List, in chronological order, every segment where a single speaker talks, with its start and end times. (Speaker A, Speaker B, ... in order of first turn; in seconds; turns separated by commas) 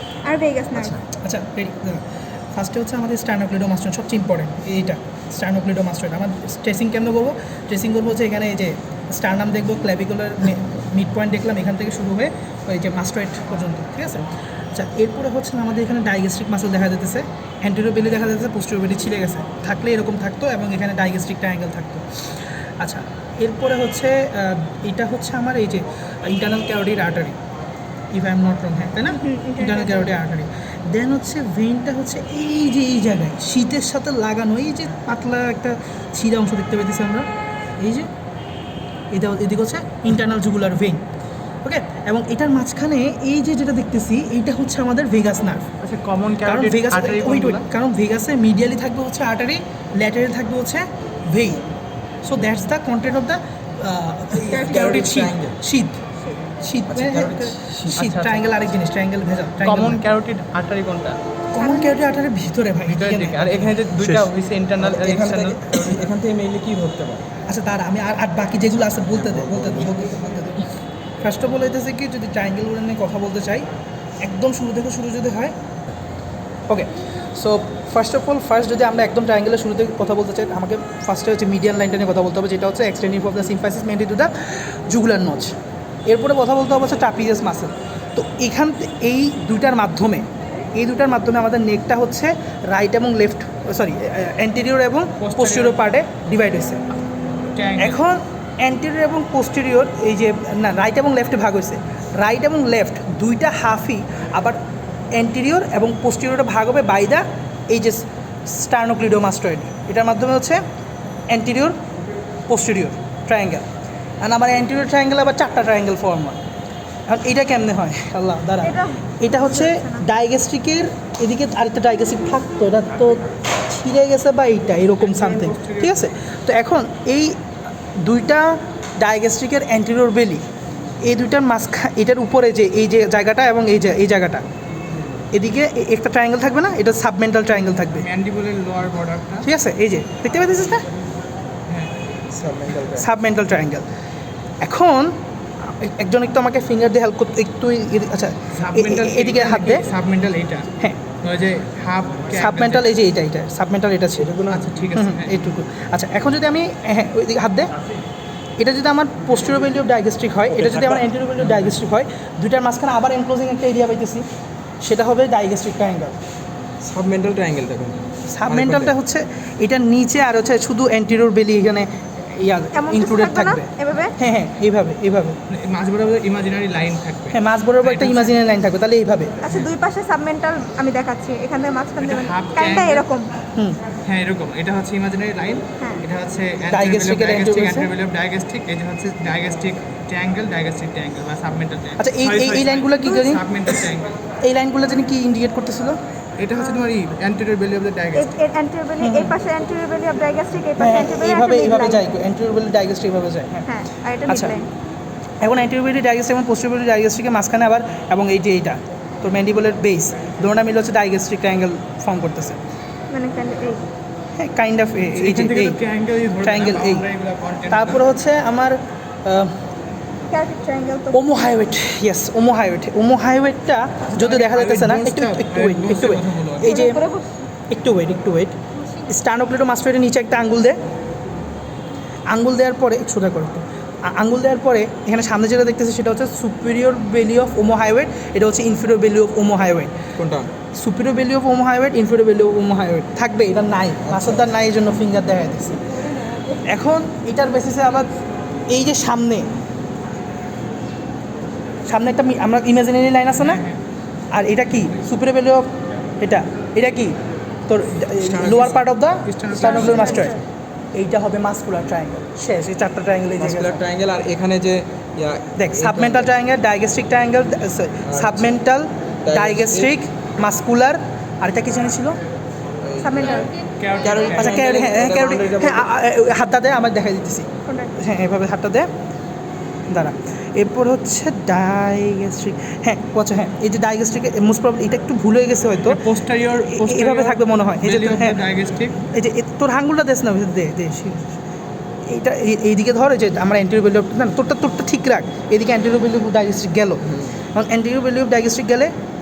Speaker A: 0.2-1.0, Speaker B: 0.8-1.0, Speaker C: 1.2-2.0, Speaker C: 2.5-27.4, Speaker C: 28.1-38.1, Speaker A: 29.2-30.2, Speaker C: 39.1-41.0, Speaker C: 41.6-45.7, Speaker D: 45.8-47.7, Speaker C: 46.4-51.6, Speaker C: 52.2-56.0, Speaker B: 54.3-55.6, Speaker A: 54.6-54.9, Speaker A: 56.2-56.5, Speaker C: 56.6-60.0, Speaker B: 56.9-58.0, Speaker D: 57.9-58.5, Speaker D: 59.6-61.2, Speaker C: 61.5-63.8, Speaker A: 61.6-62.1, Speaker D: 62.9-66.1, Speaker B: 64.8-67.3, Speaker C: 67.5-70.2, Speaker B: 68.9-70.5, Speaker C: 71.2-73.7, Speaker C: 74.2-75.5, Speaker C: 76.7-85.5, Speaker C: 86.1-96.9, Speaker D: 95.2-95.8, Speaker D: 97.5-98.0, Speaker C: 97.8-104.6, Speaker C: 105.1-110.6, Speaker C: 111.3-111.8, Speaker C: 112.5-113.7, Speaker C: 114.2-116.4, Speaker C: 117.1-127.4, Speaker A: 118.6-120.1, Speaker D: 125.0-126.2, Speaker C: 128.0-130.4, Speaker C: 131.0-134.4, Speaker C: 135.3-138.1, Speaker D: 137.9-139.5, Speaker C: 139.4-140.9, Speaker D: 141.7-141.9, Speaker B: 142.3-143.1, Speaker C: 143.0-143.9, Speaker C: 144.6-149.9, Speaker D: 148.5-150.7, Speaker C: 150.8-151.1, Speaker D: 151.2-152.9, Speaker C: 152.3-154.4, Speaker B: 154.2-154.7, Speaker D: 154.5-155.4, Speaker C: 154.9-157.7, Speaker C: 158.6-164.2, Speaker B: 160.5-161.1, Speaker C: 164.8-166.2, Speaker B: 166.8-168.9, Speaker C: 168.3-175.4, Speaker A: 172.7-174.2, Speaker D: 175.5-178.3, Speaker C: 177.3-179.4, Speaker A: 179.4-183.3, Speaker D: 182.0-183.1, Speaker D: 184.1-194.1, Speaker C: 186.7-187.9, Speaker C: 192.0-193.5, Speaker C: 194.4-196.0, Speaker D: 196.4-198.4, Speaker A: 196.6-196.9, Speaker A: 198.2-202.0, Speaker C: 199.0-199.3, Speaker C: 200.8-203.7, Speaker A: 203.7-204.7, Speaker C: 204.3-204.6, Speaker C: 205.4-212.6, Speaker A: 213.1-213.8, Speaker C: 214.4-215.8, Speaker D: 215.1-218.0, Speaker C: 216.4-217.1, Speaker C: 217.7-219.6, Speaker A: 220.3-221.4, Speaker C: 221.1-227.1, Speaker D: 224.1-226.8, Speaker A: 226.6-227.3, Speaker C: 227.7-230.8, Speaker C: 232.3-239.9, Speaker B: 240.2-240.5, Speaker C: 240.8-245.8, Speaker B: 244.0-244.5, Speaker C: 246.7-248.1, Speaker C: 248.7-249.5, Speaker C: 251.9-253.7, Speaker D: 253.4-253.8, Speaker C: 254.3-257.2, Speaker C: 257.7-260.4, Speaker B: 258.2-258.9, Speaker D: 259.3-260.1, Speaker A: 259.6-260.4, Speaker C: 260.9-263.8, Speaker B: 263.4-266.3, Speaker C: 265.6-272.2, Speaker B: 268.0-268.6, Speaker B: 269.2-269.9, Speaker B: 272.8-275.9, Speaker A: 273.0-274.3, Speaker D: 273.8-274.6, Speaker C: 274.3-278.9, Speaker A: 277.7-278.0, Speaker C: 279.9-286.0, Speaker D: 285.9-289.0, Speaker C: 286.7-288.4, Speaker C: 289.0-291.4, Speaker C: 292.1-297.0, Speaker B: 297.1-297.4, Speaker C: 297.5-298.9